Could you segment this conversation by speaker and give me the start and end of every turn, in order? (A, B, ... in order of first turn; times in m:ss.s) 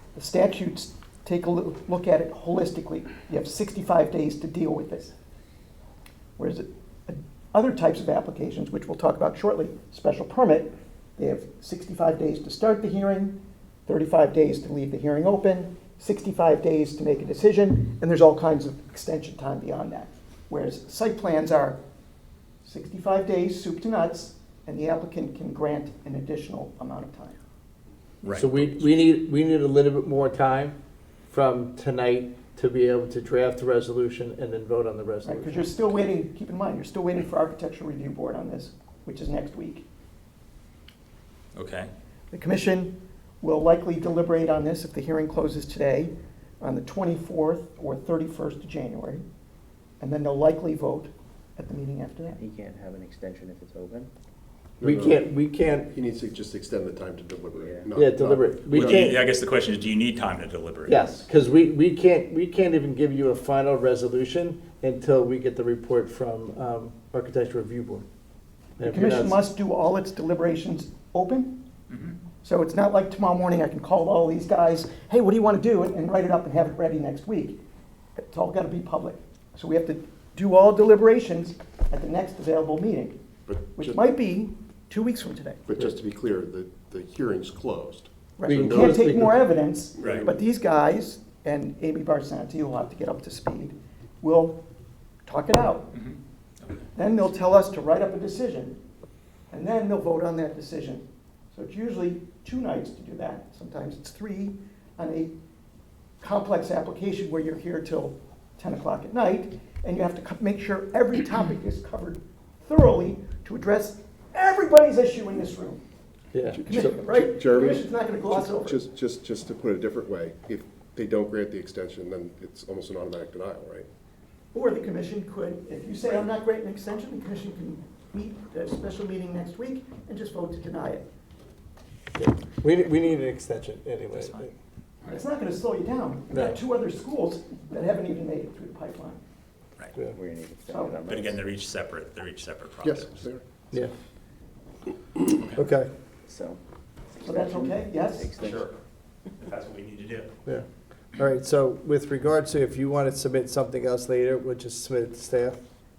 0:00.2-0:05.1 A
0:06.4-0:21.8 A
0:22.6-0:27.4 A
0:28.2-0:28.9 B
0:28.3-0:30.8 C
0:31.3-0:35.7 C
0:35.2-0:39.8 A
0:41.5-0:41.9 B
0:42.3-0:49.2 A
0:50.0-0:52.4 A
0:52.3-0:54.1 D
0:54.8-0:55.3 E
0:54.8-0:55.9 C
0:55.9-0:59.1 E
0:57.5-0:57.9 D
0:57.9-0:59.2 C
0:58.7-1:01.1 B
1:00.8-1:08.0 C
1:08.8-1:09.4 C
1:08.8-1:11.6 A
1:11.9-1:12.2 B
1:12.4-1:17.6 A
1:18.2-1:23.2 A
1:23.4-1:24.0 E
1:23.8-1:25.6 A
1:25.6-1:29.0 E
1:28.4-1:34.6 A
1:28.5-1:29.5 C
1:30.0-1:30.4 E
1:35.2-1:35.9 A
1:35.9-1:36.8 B
1:36.9-1:38.8 A
1:39.5-1:45.3 A
1:46.2-1:55.8 A
1:56.3-1:57.0 C
1:56.5-2:03.9 E
1:56.6-1:58.8 A
2:04.5-2:11.0 A
2:12.2-2:14.5 C
2:14.1-2:14.5 B
2:15.0-2:19.2 A
2:16.3-2:16.6 C
2:20.1-2:21.4 D
2:20.7-2:21.0 A
2:21.1-2:23.2 B
2:22.8-2:23.4 E
2:25.3-2:25.6 B
2:25.5-2:25.9 C
2:26.2-2:26.6 D
2:27.1-2:28.7 D
2:27.2-2:28.3 A
2:28.4-2:28.8 B
2:29.4-2:30.3 B
2:30.4-2:35.6 C